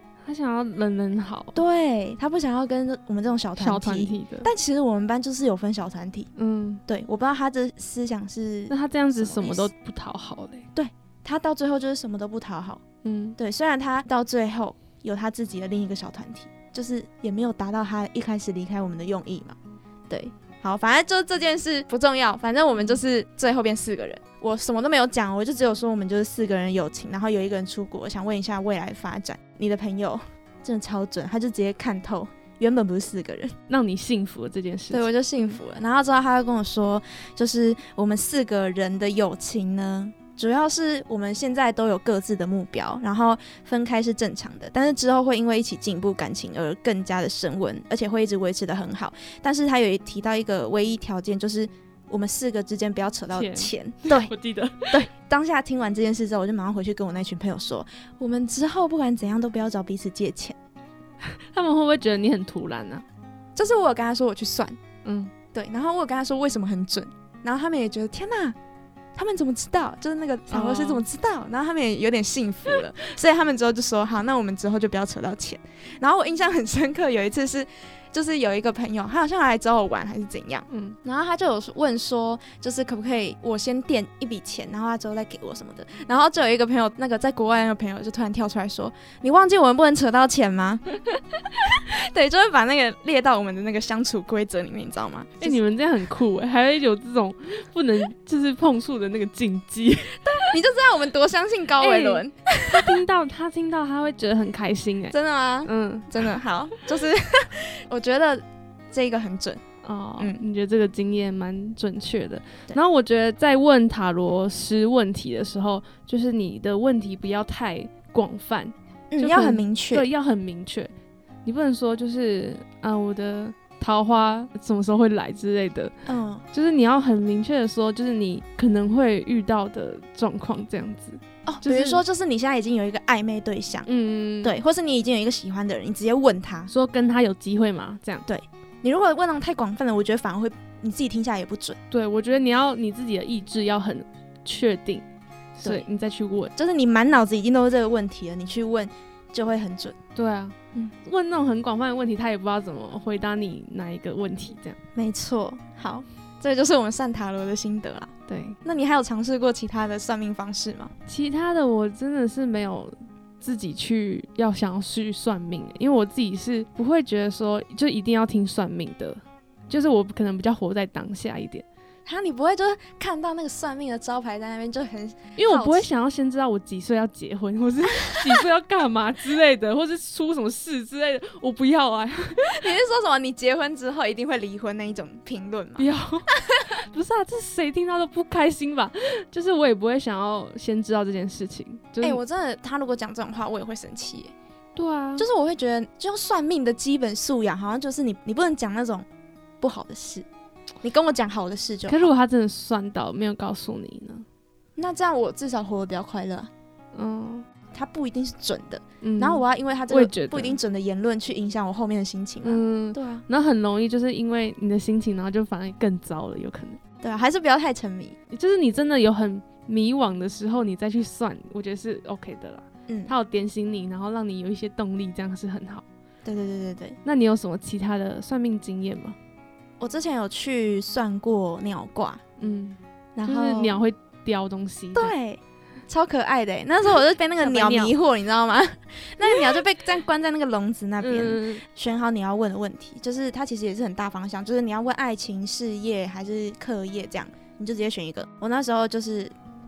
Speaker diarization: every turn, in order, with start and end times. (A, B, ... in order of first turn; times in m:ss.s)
0:00.2-0:01.6 A
0:01.5-0:06.3 B
0:03.6-0:04.5 A
0:06.4-0:06.8 A
0:06.9-0:09.7 B
0:08.7-0:10.7 A
0:10.7-0:12.8 B
0:13.0-0:13.4 A
0:13.4-0:19.6 B
0:20.1-0:33.5 B
0:33.7-0:35.1 A
0:34.9-0:54.3 B
0:53.3-0:55.0 A
0:54.9-1:00.6 B
1:01.2-1:03.0 A
1:03.6-1:04.8 B
1:05.0-1:05.3 A
1:05.5-1:08.6 B
1:09.2-1:30.8 B
1:10.5-1:11.0 A
1:20.7-1:21.0 A
1:31.6-1:35.6 B
1:35.4-1:40.5 A
1:40.2-1:42.9 B
1:41.8-1:46.3 A
1:45.1-1:49.6 B
1:49.8-2:00.9 A
1:59.1-2:00.1 B
2:01.4-2:05.9 A
2:06.0-2:06.4 B
2:06.5-2:12.0 A
2:11.4-2:13.9 B
2:13.8-2:14.6 A
2:14.4-2:16.7 B
2:16.7-2:18.2 A
2:18.3-2:21.8 B
2:21.9-2:25.0 A
2:25.6-2:26.5 A
2:26.6-2:30.0 B
2:30.2-2:34.8 A
2:34.9-2:38.1 B
2:38.3-2:38.6 A
2:38.6-2:40.9 B
2:41.1-2:51.6 A
2:52.0-2:55.8 B
2:55.4-3:02.6 A
2:58.1-2:58.3 B
3:02.4-3:06.7 B
3:05.8-3:12.2 A
3:12.0-3:14.3 B
3:14.8-3:15.2 A
3:15.2-3:19.1 B
3:19.6-3:20.2 B
3:20.8-3:22.1 B
3:21.9-3:24.2 A
3:24.8-3:26.5 B
3:26.9-3:27.4 A
3:27.7-3:33.2 B
3:29.0-3:30.6 A
3:32.4-3:36.8 A
3:37.0-3:38.2 B
3:38.3-3:45.8 A
3:46.2-3:47.0 B
3:47.0-3:49.2 A
3:49.8-3:52.2 B
3:52.4-3:55.1 A
3:53.1-3:53.8 B
3:54.9-4:09.3 B
3:57.4-3:57.9 A
4:01.0-4:01.6 A